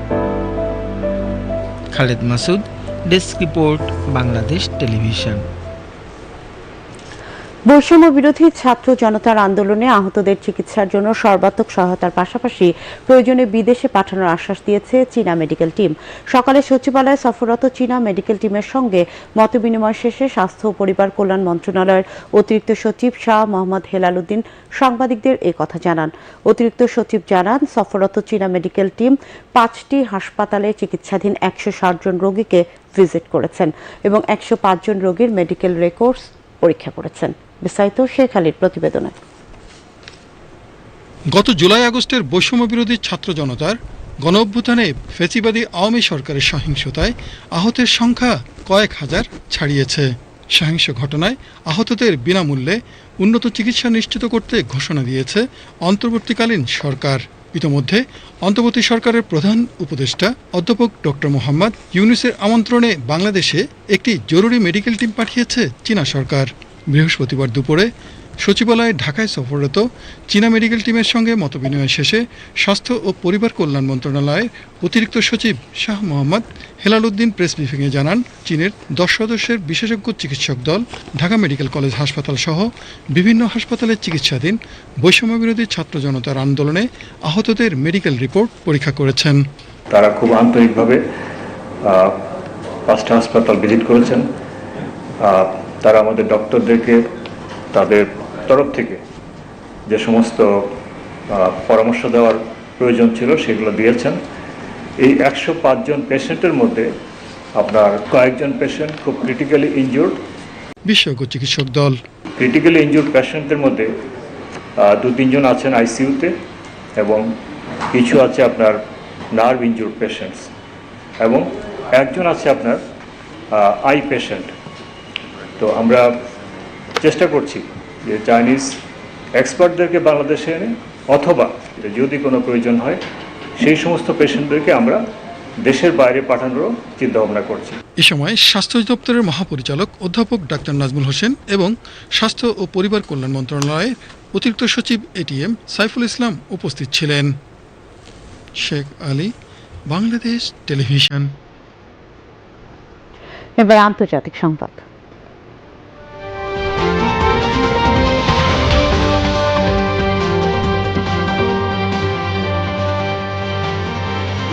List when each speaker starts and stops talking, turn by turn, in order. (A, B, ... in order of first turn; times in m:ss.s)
0:01.9-0:05.4 A
0:07.7-0:39.1 B
0:41.3-1:07.9 C
1:08.4-1:29.4 C
1:29.9-1:31.0 D
1:31.8-1:32.2 D
1:32.9-1:34.3 D
1:35.2-1:37.1 D
1:37.7-1:39.0 D
1:39.9-1:40.8 D
1:41.3-1:44.2 D
1:45.0-1:46.9 D
1:47.6-1:50.2 D
1:50.8-1:52.0 C
1:52.4-1:53.9 D
1:54.8-1:56.3 D
1:57.0-1:57.3 D
1:57.9-1:58.8 D
1:59.3-2:00.5 D
2:01.2-2:02.8 D
2:03.5-2:04.5 D
2:05.6-2:06.2 D
2:07.0-2:08.8 D
2:09.4-2:13.0 D
2:13.6-2:15.0 D
2:15.6-2:17.8 D
2:18.0-2:27.3 C
2:28.6-2:29.3 C
2:29.9-2:31.3 C
2:33.6-2:34.8 B